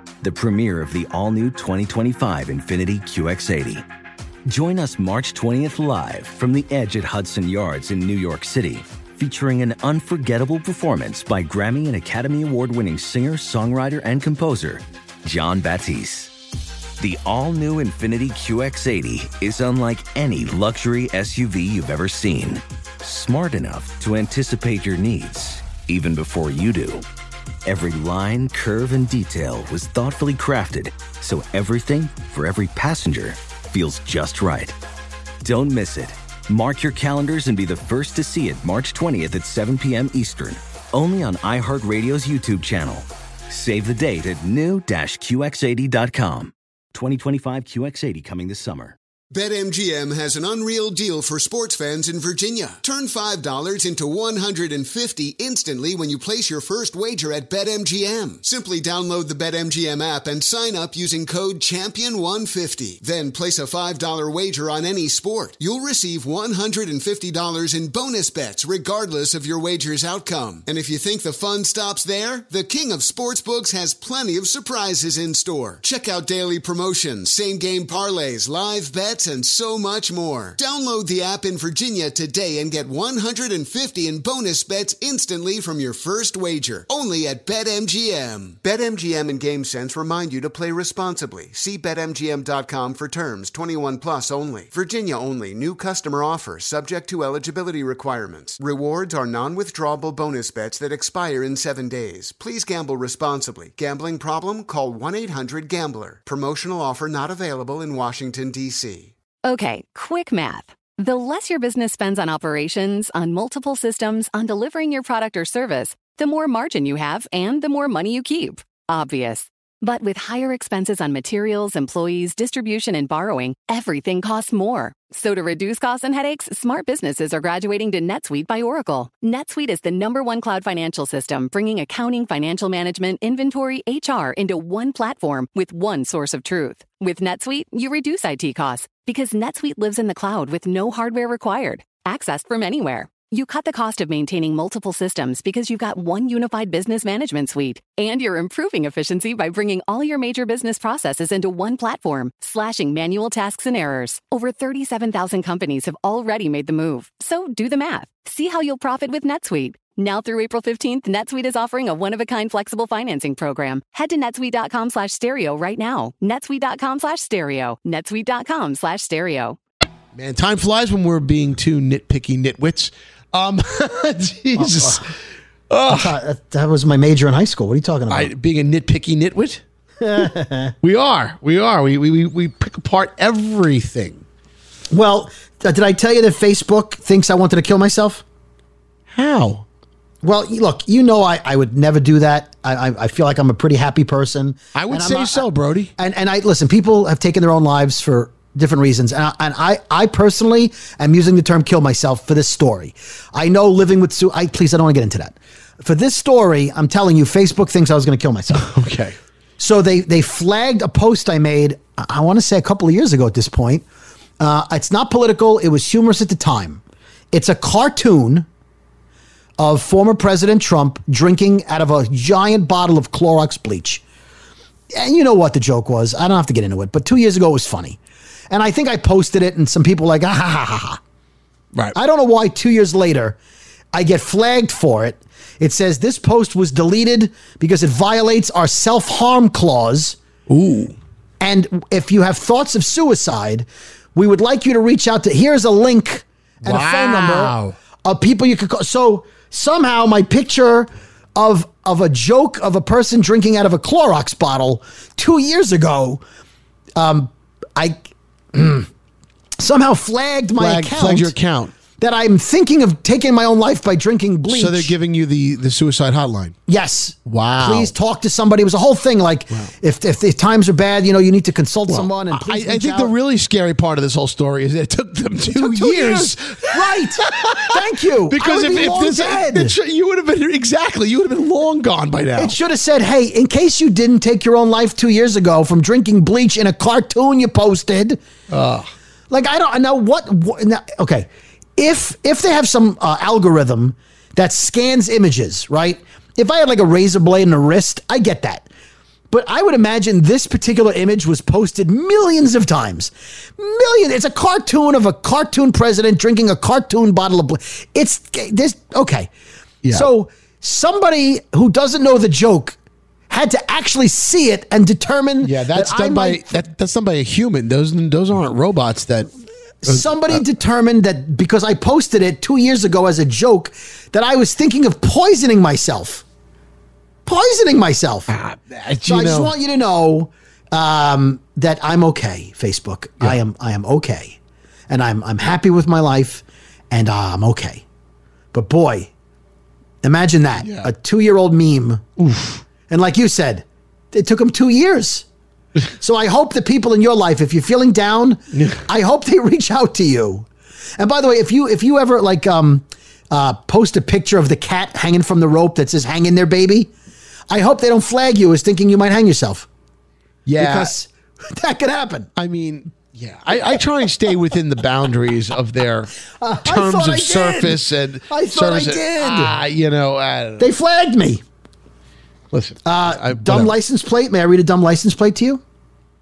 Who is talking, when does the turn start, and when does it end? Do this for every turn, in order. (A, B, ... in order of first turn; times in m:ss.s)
0:00.2-0:03.8 A
0:04.5-0:16.3 A
0:17.0-0:27.0 A
0:27.7-0:34.8 A
0:35.4-0:49.0 A
0:49.3-1:49.1 B
1:49.4-2:49.6 C
2:50.2-2:55.2 D
2:54.6-2:55.0 E
2:55.7-2:56.1 D
2:55.9-2:58.3 E
2:58.1-2:59.6 D
3:00.0-3:00.7 E
3:00.8-3:04.2 D
3:04.9-3:08.2 E
3:09.1-3:09.6 D
3:10.2-3:15.4 E
3:14.8-3:15.9 D
3:16.0-3:28.7 E
3:28.6-3:29.2 D
3:29.6-3:33.8 E
3:34.4-3:36.8 E
3:37.3-3:38.5 E
3:39.6-3:44.0 E
3:44.9-3:48.0 E
3:48.5-3:51.0 E
3:51.9-3:53.4 E
3:53.9-4:00.2 E
4:00.5-4:01.0 D
4:01.4-4:16.2 E
4:06.6-4:07.7 D
4:17.0-4:18.9 E
4:19.6-4:21.3 E
4:20.6-4:21.7 D
4:22.0-4:24.9 E
4:24.5-4:26.6 D
4:26.7-4:33.1 E
4:27.3-4:27.9 D
4:31.9-4:37.8 D
4:35.5-4:39.8 E
4:38.3-4:42.6 D
4:42.4-4:48.2 E
4:48.5-4:48.9 D
4:49.3-4:58.7 E
4:59.3-5:09.3 E
5:09.8-5:10.1 D
5:09.9-5:12.8 E
5:13.3-5:16.5 E
5:15.4-5:19.3 D
5:19.8-5:26.2 E
5:19.9-5:20.4 D
5:27.3-5:28.3 E
5:28.3-5:29.5 D
5:29.1-5:34.4 E
5:34.9-5:37.8 E
5:38.5-5:39.1 E
5:40.0-5:42.1 E
5:40.6-5:40.9 D
5:42.2-5:42.6 D
5:42.9-5:45.3 E
5:46.0-5:50.5 E
5:48.5-5:48.8 D
5:51.0-5:56.9 E
5:57.5-5:59.7 E
6:00.5-6:01.0 D
6:00.6-6:02.3 E
6:02.4-6:06.1 D
6:06.4-6:09.6 E
6:06.6-6:10.7 D
6:10.6-6:11.4 E
6:12.5-6:13.7 D
6:12.8-6:15.6 E